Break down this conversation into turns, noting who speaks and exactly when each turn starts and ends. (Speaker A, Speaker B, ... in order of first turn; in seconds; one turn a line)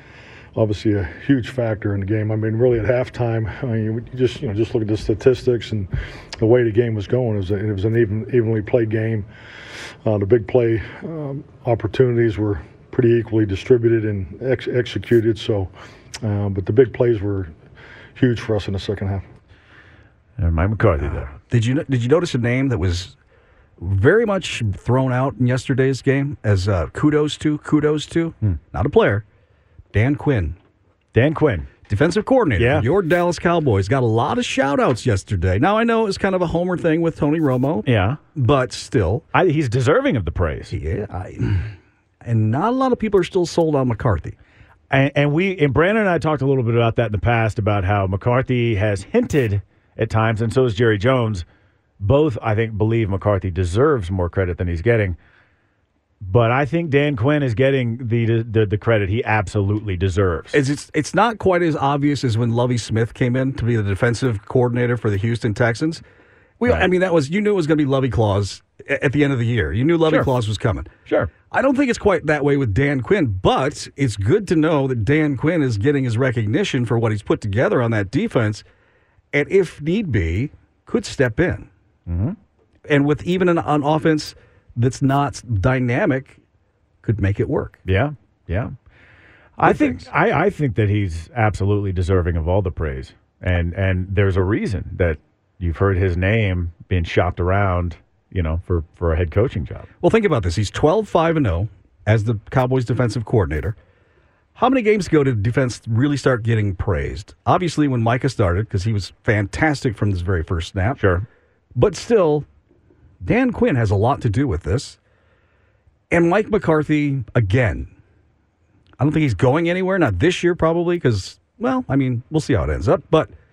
Speaker A: 0.6-9.3
Speaker A: 10.0-15.7
Speaker A: 16.2-17.5
Speaker A: 18.1-19.2
Speaker B: 20.4-21.3
Speaker C: 21.3-23.1
Speaker C: 23.8-29.2
Speaker C: 29.9-30.6
Speaker B: 31.1-31.7
Speaker C: 31.9-39.2
Speaker B: 32.5-32.9
Speaker B: 37.8-38.2
Speaker B: 39.3-40.7
Speaker C: 40.7-44.4
Speaker B: 44.9-51.4
Speaker B: 52.0-55.2
Speaker B: 56.2-60.6
Speaker C: 60.5-66.0
Speaker C: 66.6-70.9
Speaker C: 71.5-78.6
Speaker C: 79.3-81.7
Speaker B: 82.1-82.3
Speaker C: 82.9-86.4
Speaker C: 87.0-87.8
Speaker B: 87.8-88.7
Speaker B: 89.6-99.9
Speaker C: 89.6-90.0
Speaker C: 100.0-103.8
Speaker C: 104.5-111.0
Speaker B: 111.0-111.2
Speaker C: 111.8-112.5
Speaker C: 113.2-115.0
Speaker C: 116.1-117.9
Speaker C: 119.0-123.3